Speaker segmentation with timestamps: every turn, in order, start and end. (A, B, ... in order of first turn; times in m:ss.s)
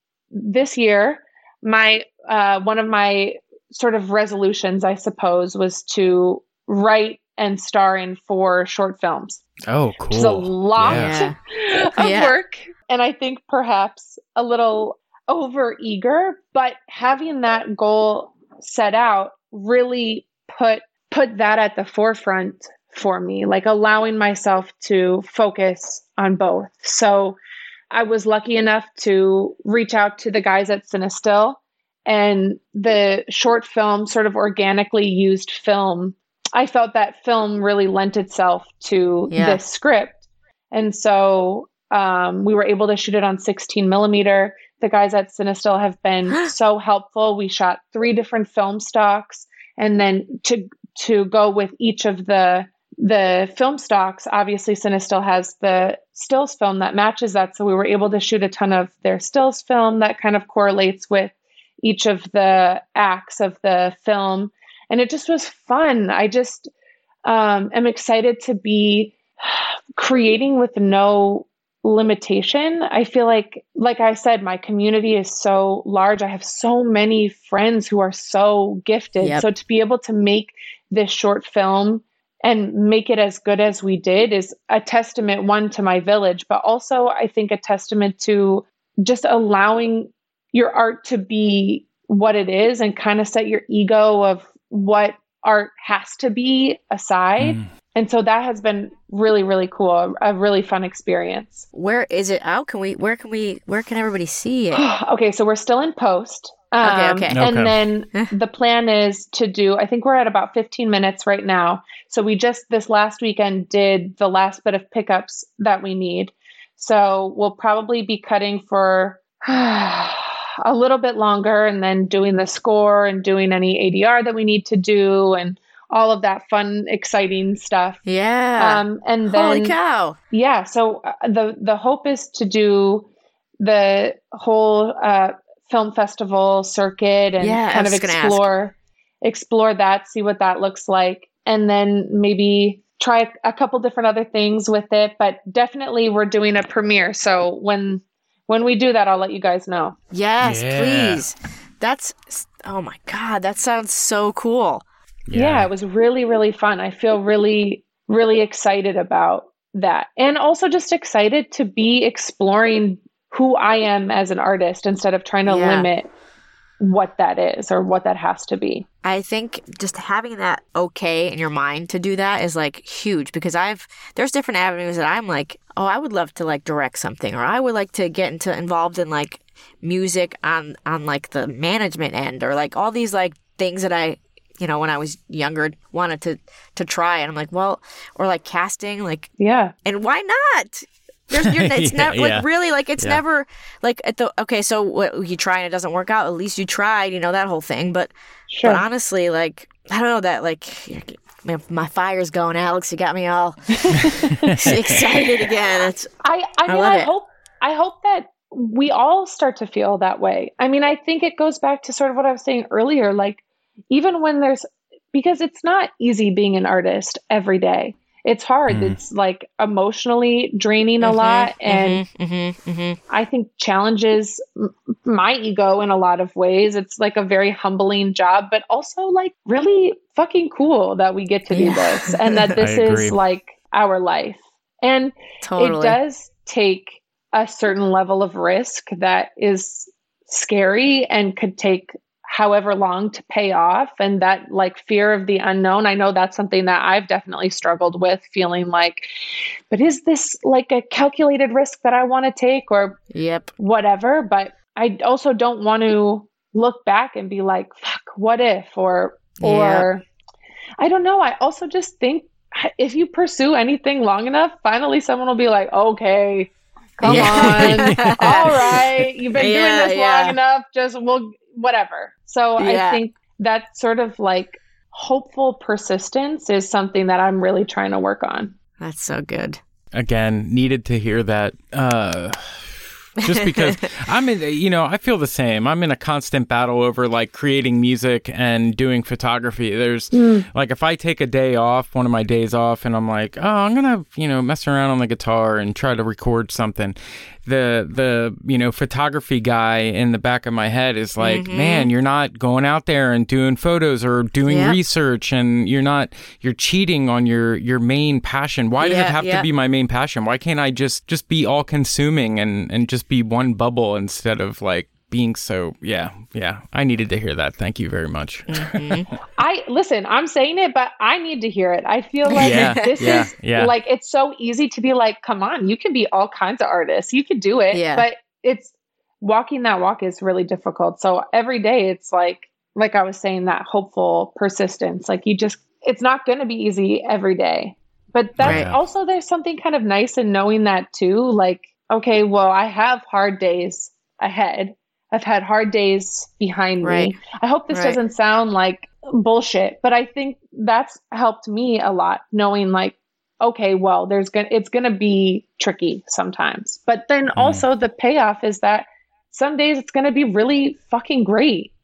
0:00.3-0:09.4 A
0:09.6-0:11.2 B
0:10.1-0:27.4 A
0:10.8-0:11.4 C
0:12.0-0:12.3 C
0:27.9-1:06.7 A
0:39.3-0:39.6 C
1:07.2-1:41.6 A
1:37.4-1:37.7 B
1:41.7-1:44.8 C
1:44.7-2:08.0 A
1:46.8-1:47.4 C
1:47.3-1:47.8 B
2:08.0-2:10.2 C
2:08.6-2:09.8 A
2:10.3-2:13.1 A
2:13.6-2:30.0 A
2:17.4-2:18.5 C
2:30.1-2:34.8 C
2:30.4-2:31.2 B
2:35.3-2:35.7 B
2:35.3-2:46.0 A
2:45.4-2:45.9 C
2:46.8-2:48.8 A
2:49.0-3:09.3 C
3:09.4-3:09.7 A
3:09.8-3:18.1 C
3:11.3-3:12.4 B
3:18.5-3:18.8 A
3:18.6-3:26.1 C
3:24.4-3:25.3 B
3:26.2-3:42.0 A
3:26.6-3:27.1 C
3:38.7-3:39.0 B
3:41.0-3:43.0 C
3:43.1-4:09.1 A
3:51.5-3:52.4 C
3:52.6-3:53.2 B
3:55.4-3:56.0 C
4:09.7-4:13.0 A
4:13.1-4:13.5 C
4:13.6-4:20.0 A
4:19.4-4:19.9 C
4:20.8-4:38.5 A
4:27.0-4:28.5 B
4:27.0-4:30.4 C
4:32.6-4:33.0 C
4:38.8-4:39.6 C
4:39.9-5:19.0 B
4:43.2-4:43.7 C
4:50.1-4:50.4 A
5:01.2-5:01.9 C
5:04.5-5:04.8 C
5:08.8-5:09.5 C
5:18.5-5:19.1 C
5:19.4-6:01.7 A
5:22.3-5:23.2 C
5:22.4-5:23.7 B
5:27.7-5:28.0 C
5:38.4-5:38.8 B
5:38.4-5:38.7 C
5:46.8-5:47.2 C
5:47.7-5:48.0 C
5:57.4-5:57.6 B